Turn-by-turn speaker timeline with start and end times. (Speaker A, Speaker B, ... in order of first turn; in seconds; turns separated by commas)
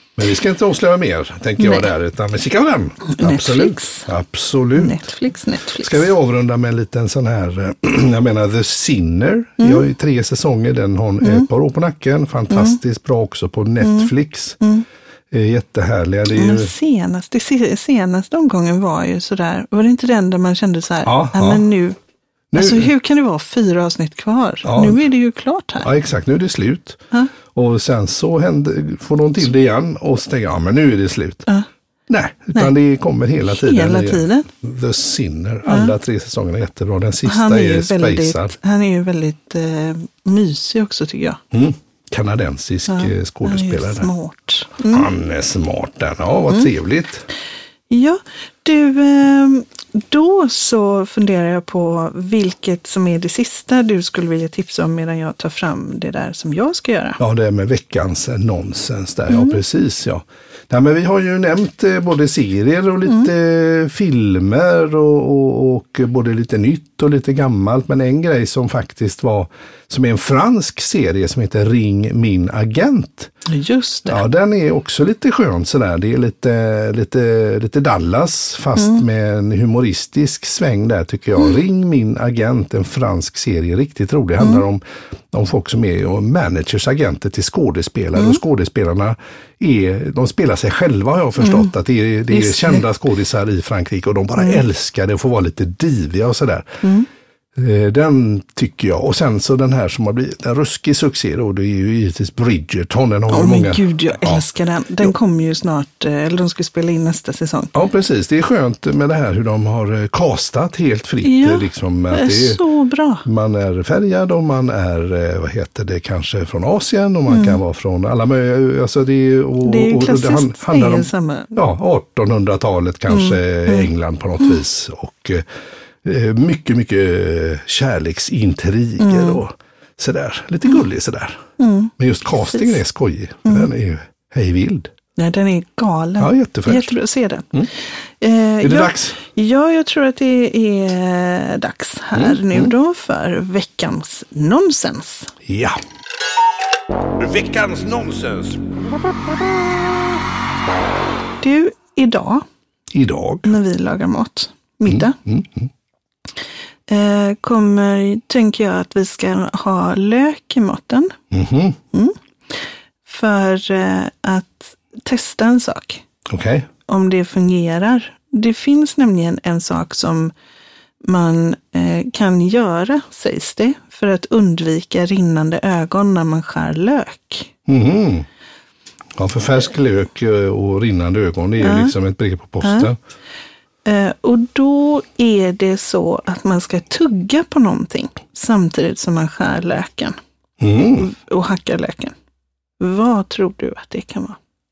Speaker A: 0.2-5.0, Speaker B: 1.6-1.9, Speaker B: 3.1-4.1, Speaker B: 4.8-6.1, Speaker A: 5.8-14.6, Speaker B: 9.6-9.8, Speaker B: 11.2-11.5, Speaker B: 12.5-12.8, Speaker B: 13.8-14.8, Speaker A: 15.3-16.7, Speaker B: 16.3-22.0, Speaker A: 21.0-21.6, Speaker A: 22.5-22.9, Speaker B: 22.5-25.9, Speaker A: 24.6-25.0, Speaker A: 25.8-31.5, Speaker A: 32.1-38.5, Speaker B: 33.5-34.5, Speaker B: 35.7-35.9, Speaker B: 37.2-41.4, Speaker A: 41.5-44.1, Speaker B: 42.9-45.1, Speaker A: 44.9-47.3, Speaker B: 47.9-57.2, Speaker A: 57.2-73.3, Speaker B: 59.3-59.6, Speaker B: 73.5-74.2, Speaker A: 74.0-96.8, Speaker B: 88.2-88.4, Speaker B: 91.4-91.7, Speaker B: 92.3-92.8, Speaker B: 94.4-94.6, Speaker A: 97.5-104.4, Speaker B: 103.3-107.7, Speaker A: 107.7-112.6, Speaker B: 111.2-113.2, Speaker A: 113.2-125.4, Speaker B: 117.3-117.6, Speaker B: 119.6-121.6, Speaker B: 123.1-123.9, Speaker A: 126.0-131.4, Speaker B: 129.0-129.4, Speaker B: 131.6-131.9, Speaker A: 132.0-134.9, Speaker B: 132.5-132.8, Speaker B: 135.2-137.5, Speaker A: 136.2-137.0, Speaker B: 138.2-145.3, Speaker A: 138.6-139.2, Speaker A: 142.1-142.7, Speaker A: 145.4-145.8, Speaker A: 147.2-148.6, Speaker B: 151.4-152.4, Speaker A: 152.9-153.5, Speaker B: 153.4-155.2, Speaker A: 154.9-155.7, Speaker B: 156.9-161.1, Speaker A: 161.3-161.8, Speaker B: 161.9-166.0, Speaker A: 166.3-166.7, Speaker B: 166.8-170.3, Speaker B: 171.0-177.5, Speaker A: 177.7-178.3, Speaker A: 179.2-183.0, Speaker B: 181.6-181.9, Speaker B: 182.6-182.9, Speaker B: 183.8-190.2, Speaker A: 190.6-191.1, Speaker B: 190.9-192.1, Speaker B: 192.8-194.4